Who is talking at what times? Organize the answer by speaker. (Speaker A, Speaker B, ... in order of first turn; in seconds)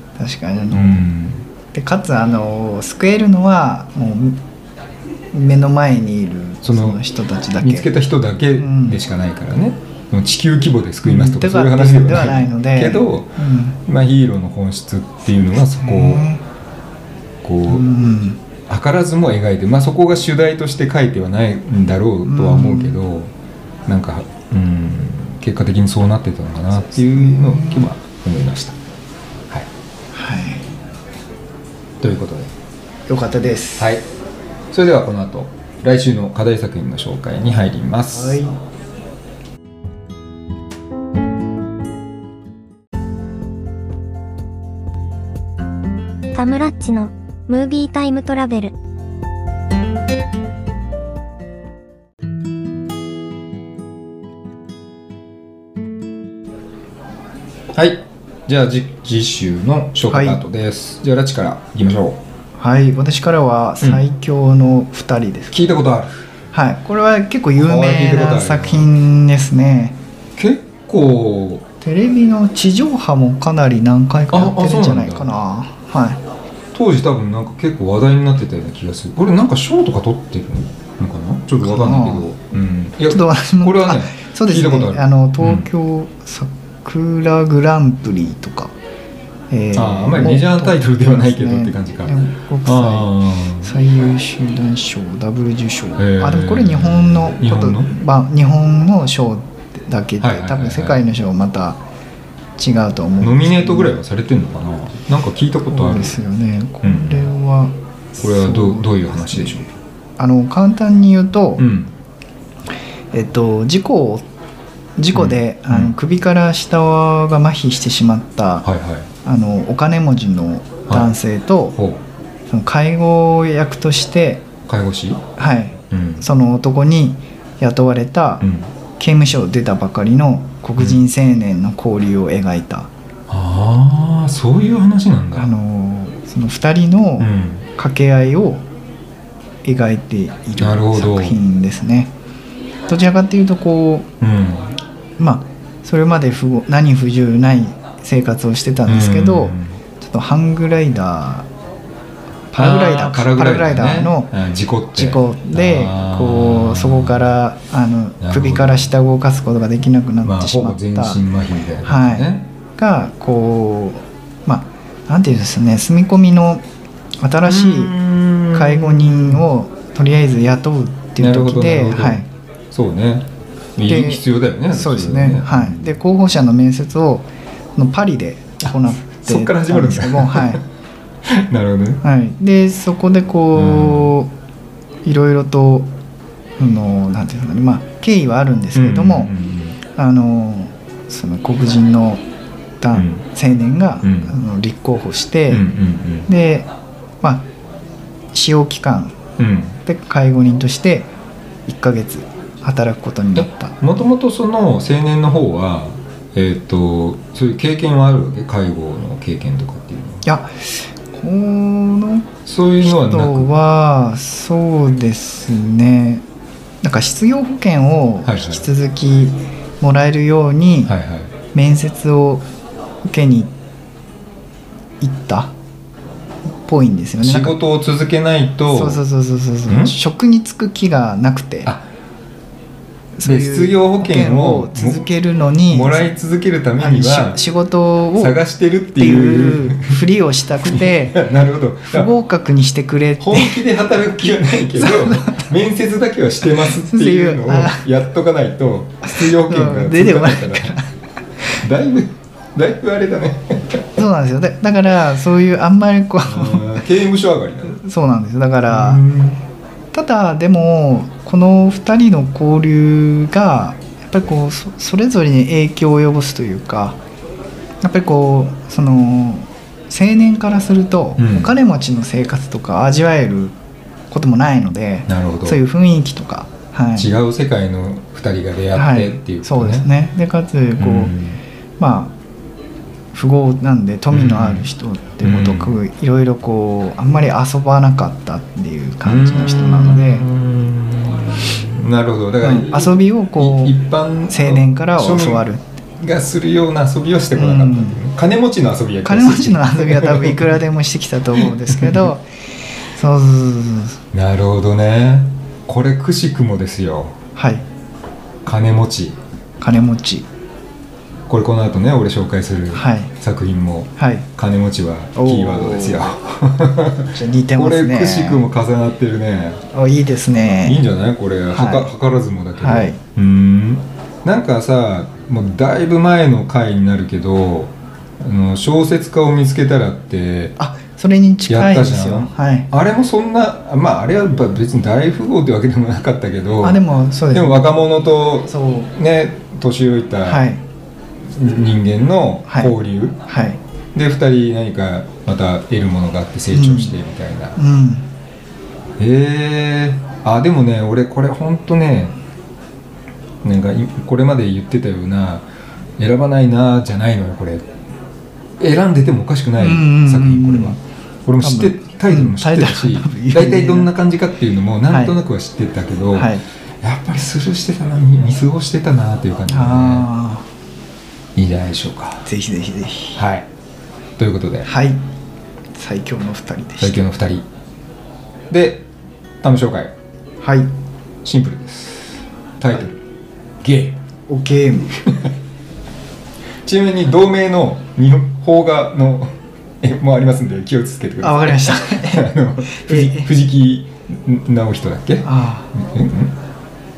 Speaker A: 0.2-1.1, 1.7-4.4, 5.3-7.9, 8.6-9.0, 11.0-13.8, 15.8-16.4, 17.7-18.4, 22.2-23.0, 26.9-27.9, 30.1-30.7, 33.1-33.9, 38.1-38.6, 60.1-60.4, 62.6-65.6, 66.5-70.0, 71.8-76.2, 81.6-82.3, 83.1-88.7, 89.5-101.8, 102.6-104.0, 105.7-109.7, 110.2-111.6, 113.1-114.2, 115.0-118.7, 119.2-121.8, 122.5-124.5, 125.4-128.4, 129.0-132.9, 135.3-138.7, 139.6-142.1, 142.9-144.1, 145.2-151.5, 152.5-154.3, 154.9-161.2, 161.8-166.6, 167.2-167.9, 168.5-172.3, 173.8-180.6, 182.0-184.3, 185.1-185.9, 186.6-189.3, 189.9-192.2, 192.8-195.7, 196.3-196.7, 197.2-197.5, 198.3-199.2, 199.8-201.1, 201.7-203.7, 210.2-212.3, 212.8-216.2, 216.8-220.9, 221.5-222.5, 223.0-223.5, 225.0-225.5, 226.6-227.6, 228.7-231.7, 233.2-236.1, 236.8-238.4, 238.9-241.2, 241.9-243.6, 244.7-245.5, 246.6-247.8, 249.0-250.9, 253.9-256.9, 257.7-259.0, 259.9-267.0, 267.8-273.6, 274.1-277.1, 278.7-281.2, 281.8-282.1, 283.1-290.3, 292.4-293.8, 294.3-295.6, 297.3-298.0, 299.1-302.2, 302.9-304.0, 307.4-307.6, 309.6-310.3, 312.7-313.1, 314.0-314.3, 315.2-316.1, 317.1-318.4, 319.7-320.8, 321.5-321.9, 322.6-323.0, 330.6-332.7, 336.6-337.9, 338.4-338.9, 340.2-340.6, 342.5-342.7, 343.3-343.6, 346.5-347.0, 347.6-348.1, 359.6-360.8, 361.4-363.9, 364.9-365.2, 366.1-366.4, 369.5-370.4, 372.2-373.2, 374.6-375.0, 375.7-377.0, 380.4-380.7, 384.3-385.0, 391.2-393.3, 395.2-395.7
Speaker B: 0.7-1.4, 6.6-7.0, 7.6-16.2, 17.4-17.9, 18.7-23.3, 23.9-28.8, 32.0-32.5, 33.8-34.1, 34.7-38.4, 57.7-62.2, 65.5-66.3, 67.6-68.9, 70.4-71.6, 74.3-75.3, 76.7-85.7, 89.7-93.7, 96.0-97.9, 100.2-101.0, 103.2-106.2, 106.8-107.3, 108.2-109.7, 111.6-111.9, 115.1-116.0, 118.6-119.1, 121.7-122.0, 124.7-125.2, 125.9-126.2, 128.4-128.7, 133.3-135.5, 137.2-137.7, 140.6-141.4, 144.2-144.8, 148.9-149.8, 152.6-157.3, 158.2-158.9, 160.2-162.4, 167.4-169.4, 171.2-175.9, 178.6-180.6, 181.2-182.0, 183.5-184.1, 188.7-189.8, 192.9-193.2, 194.0-194.4, 195.5-196.3, 199.4-199.8, 203.4-210.2, 212.4-213.5, 218.2-218.7, 220.9-221.3, 227.2-229.0, 229.7-229.9, 233.2-235.1, 235.7-237.4, 238.2-240.0, 240.6-242.1, 243.2-250.8, 251.6-253.8, 256.2-257.8, 258.7-259.4, 271.2-271.6, 275.1-275.6, 276.9-279.9, 280.8-281.4, 284.1-284.7, 285.2-285.8, 289.0-295.4, 296.0-300.6, 301.4-302.1, 304.1-307.2, 308.4-309.2, 311.3-319.6, 320.6-330.6, 331.5-340.4, 341.2-343.2, 343.9-347.6, 349.0-352.1, 353.4-357.7, 358.6-370.1, 371.3-372.3, 373.1-373.5, 374.2-374.7, 376.8-377.5, 378.5-378.9, 379.4-379.9, 381.2-383.0, 383.6-384.0, 385.0-385.3, 386.6-396.4
Speaker C: 46.3-48.7